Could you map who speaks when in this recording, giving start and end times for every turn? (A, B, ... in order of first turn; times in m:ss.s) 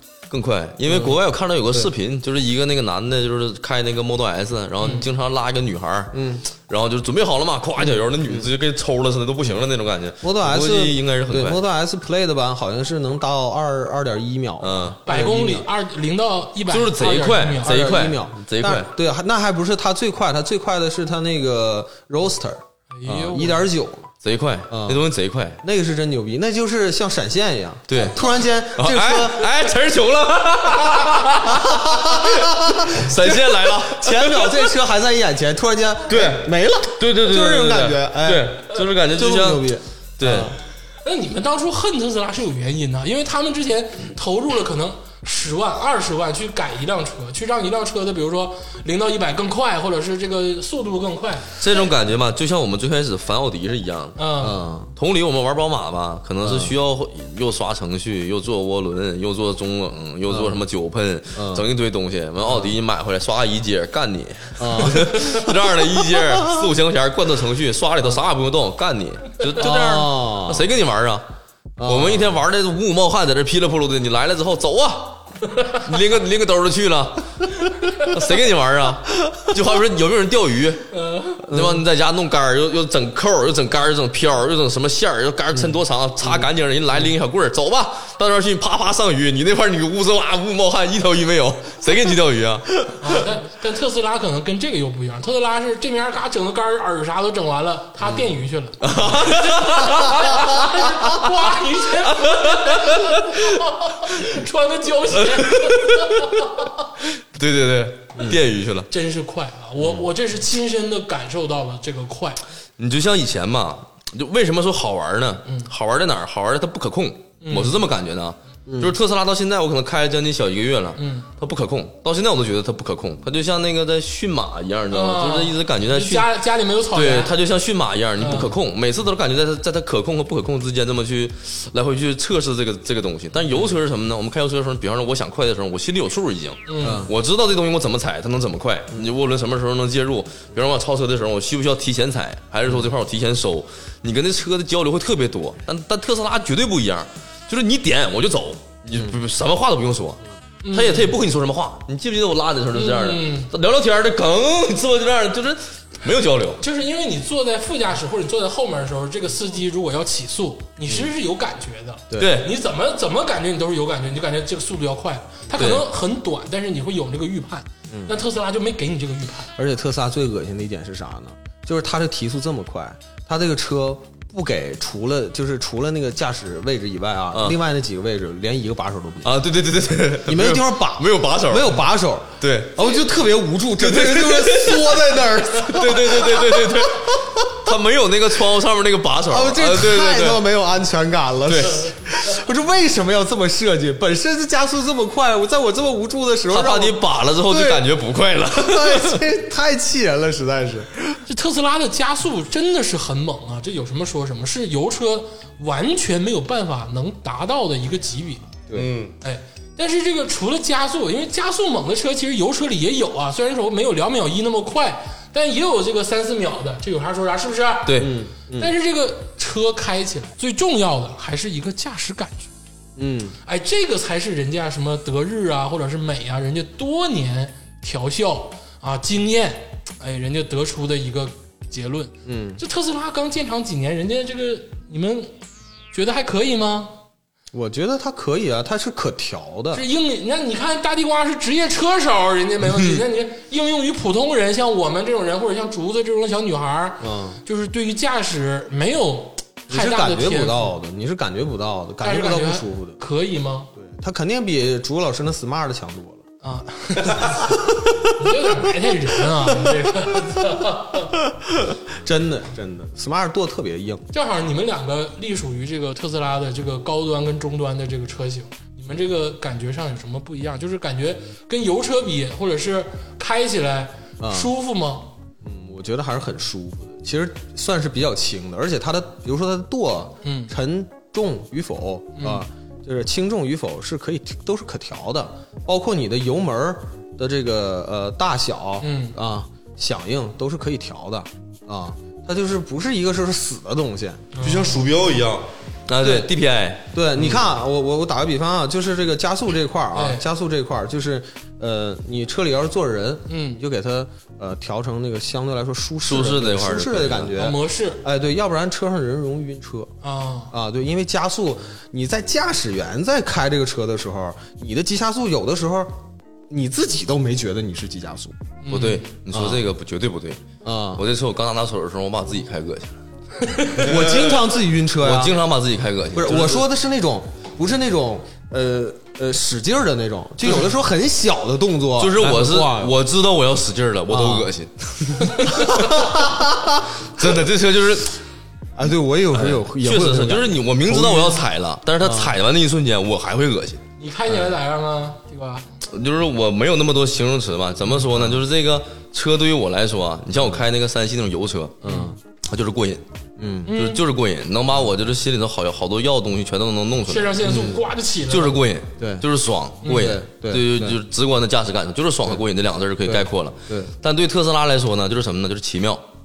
0:00.3-0:11.6 A
0:00.8-0:01.9 B
0:04.8-0:05.0 C
0:06.1-0:06.4 B
0:07.8-0:08.5 B
0:10.2-0:15.7 B
0:14.6-0:15.0 A
0:15.0-0:17.9 C
0:16.7-0:18.9 A
0:17.6-0:24.1 B
0:22.9-0:23.7 C
0:24.2-0:25.6 A
0:24.7-0:25.0 B
0:25.6-0:29.6 B
0:27.9-0:34.6 A
0:31.5-0:40.6 B
0:36.1-0:36.5 D
0:37.0-0:40.5 A
0:41.0-0:51.6 C
0:51.6-0:54.2 A
0:54.2-0:54.6 C
0:54.4-0:54.9 B
0:55.0-1:11.2 A
0:56.4-0:56.8 B
1:00.3-1:00.6 B
1:01.3-1:01.7 B
1:02.4-1:02.7 B
1:04.6-1:05.6 B
1:06.2-1:06.6 B
1:09.6-1:10.7 B
1:11.8-1:12.4 B
1:11.8-1:20.9 A
1:20.9-1:21.4 C
1:21.4-1:33.0 A
1:21.5-1:21.8 B
1:25.5-1:26.5 B
1:33.0-1:46.8 C
1:38.8-1:40.5 A
1:42.1-1:43.4 A
1:45.3-1:46.0 A
1:47.3-1:48.9 A
1:48.9-1:52.4 C
1:52.8-2:06.3 A
1:57.4-1:57.8 C
1:58.7-1:58.9 B
2:01.0-2:01.3 C
2:04.9-2:07.3 C
2:06.9-2:36.6 A
2:08.2-2:08.5 C
2:13.5-2:13.7 B
2:16.7-2:17.0 C
2:16.8-2:17.1 B
2:30.6-2:31.2 C
2:32.7-2:33.5 C
2:36.6-2:49.5 C
2:42.2-2:42.5 A
2:45.6-2:45.8 A
2:47.9-2:48.2 B
2:49.6-2:59.4 B
2:57.3-2:57.6 A
2:59.2-3:01.8 A
3:00.2-3:07.5 B
3:02.4-3:03.0 A
3:03.8-3:10.4 A
3:09.3-3:17.8 B
3:11.5-3:11.9 A
3:16.5-3:19.2 A
3:18.5-3:21.2 B
3:21.3-3:28.5 C
3:28.7-3:28.9 B
3:28.7-3:29.1 D
3:29.2-3:37.9 C
3:37.8-3:38.2 A
3:38.0-3:38.7 B
3:38.6-3:42.5 C
3:43.0-3:43.4 B
3:43.4-3:55.3 C
3:52.2-3:52.6 B
3:55.9-3:57.0 C
3:57.5-3:59.8 B
3:59.7-4:10.7 C
4:07.0-4:07.4 B
4:09.7-4:13.0 B
4:12.0-4:13.7 C
4:13.8-4:16.2 B
4:16.4-4:21.2 C
4:17.2-4:17.5 B
4:21.6-4:24.1 B
4:24.1-4:35.1 C
4:34.2-4:34.5 B
4:35.4-4:54.3 B
4:40.2-4:40.5 C
4:42.2-4:42.4 C
4:48.8-4:49.1 C
4:54.3-4:54.9 C
4:54.4-4:55.4 D
4:55.9-4:57.4 A
4:56.0-4:56.3 B
4:56.9-5:09.9 B
4:59.9-5:00.2 C
5:03.3-5:03.6 C
5:06.0-5:07.3 A
5:07.4-5:08.0 C
5:10.0-5:10.5 C
5:10.5-5:16.0 B
5:16.5-5:18.4 B
5:18.6-5:19.1 C
5:18.7-5:20.4 A
5:19.3-5:19.6 B
5:20.6-5:21.0 B
5:20.9-5:22.9 A
5:23.4-5:23.8 C
5:23.8-5:25.4 B
5:25.0-5:26.6 A
5:26.1-5:33.0 B
5:32.0-5:36.3 A
5:34.1-5:34.5 B
5:35.7-5:36.7 B
5:37.2-5:38.2 A
5:38.8-5:41.5 B
5:39.3-5:43.8 A
5:42.0-5:42.3 B
5:44.0-5:45.7 C
5:45.9-5:51.8 A
5:47.9-5:48.4 B
5:51.8-5:52.2 B
5:51.8-5:52.1 C
5:52.4-5:53.0 A
5:53.4-5:53.7 B
5:53.7-5:54.0 C
5:53.7-5:57.7 A
5:57.1-5:58.6 C
5:57.4-5:57.8 B
5:58.3-6:06.0 A
5:59.0-5:59.2 B
5:59.8-6:00.2 C
5:59.8-6:01.0 B
6:03.0-6:03.9 B